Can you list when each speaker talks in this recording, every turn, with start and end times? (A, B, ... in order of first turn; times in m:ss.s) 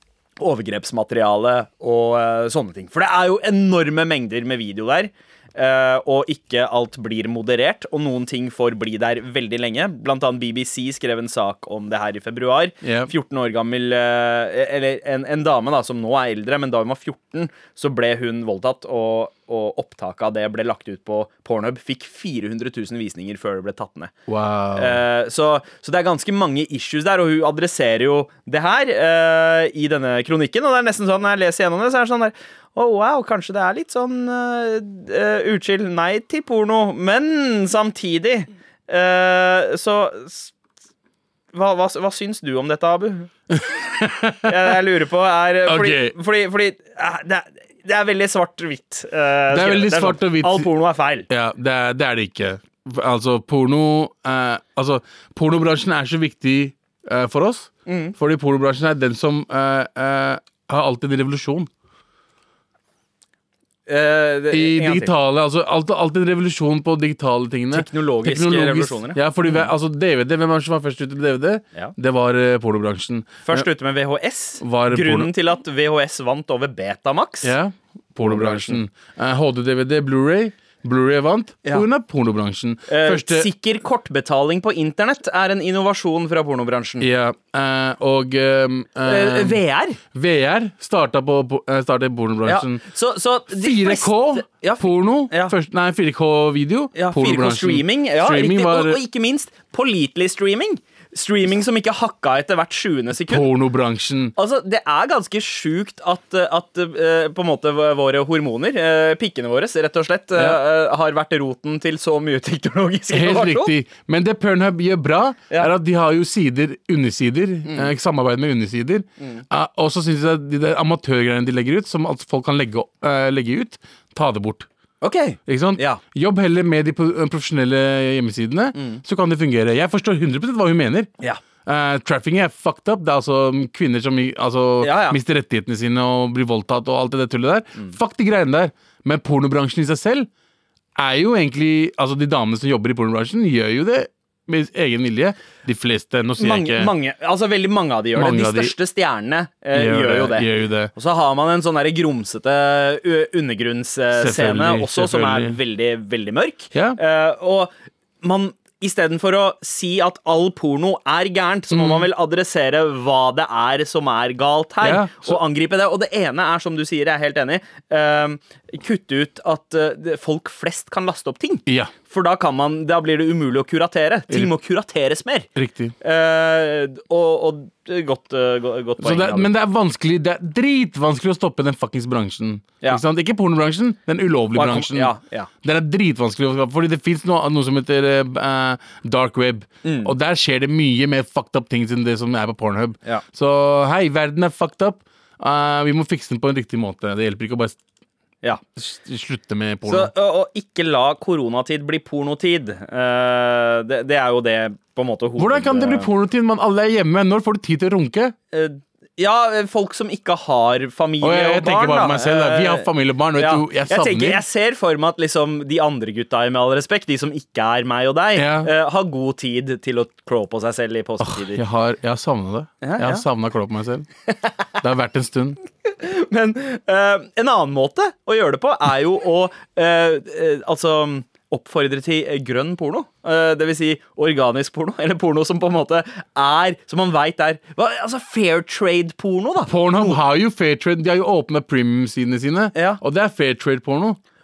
0:00.4-0:24.1 A
0:12.8-0:13.1 B
0:24.3-0:25.0 B
0:24.8-0:40.5 A
0:41.5-0:43.3 A
0:43.5-0:44.7 B
0:44.4-0:51.3 A
0:45.7-0:46.2 B
0:49.5-0:50.7 B
0:51.3-1:01.7 B
0:57.9-0:58.2 A
1:03.9-1:05.1 A
1:04.5-1:13.7 B
1:07.7-1:09.7 A
1:13.5-1:17.5 A
1:14.6-1:15.3 B
1:17.4-1:23.5 B
1:18.2-1:18.8 A
1:22.9-1:27.1 A
1:27.0-1:29.6 B
1:29.0-1:30.0 A
1:30.1-1:32.8 B
1:32.5-1:35.6 A
1:33.5-1:39.0 B
1:37.0-1:43.5 A
1:43.2-1:44.3 B
1:44.4-1:53.7 A
1:50.4-1:50.6 B
1:53.1-2:04.7 B
1:59.2-1:59.4 A
2:05.0-2:06.0 A
2:05.5-2:11.1 B
2:08.8-2:09.0 A
2:11.6-2:20.3 B
2:14.8-2:15.2 A
2:21.0-2:26.9 B
2:26.4-2:55.5 A
2:28.2-2:28.8 B
2:29.7-2:30.9 B
2:34.1-2:35.6 B
2:41.7-2:42.1 B
2:44.8-2:45.4 B
2:51.7-2:51.9 B
2:55.6-2:55.9 B
2:56.0-2:59.5 A
2:59.0-3:17.8 B
3:04.6-3:05.5 A
3:09.8-3:10.1 A
3:18.8-3:20.1 B
3:19.9-3:26.1 A
3:25.4-3:28.3 B
3:28.5-3:41.6 A
3:31.2-3:34.4 B
3:38.4-3:38.7 B
3:41.2-3:44.1 B
3:42.8-3:43.2 A
3:44.8-3:45.6 B
3:45.8-4:00.2 A
3:59.7-4:04.2 B
4:02.7-4:03.0 A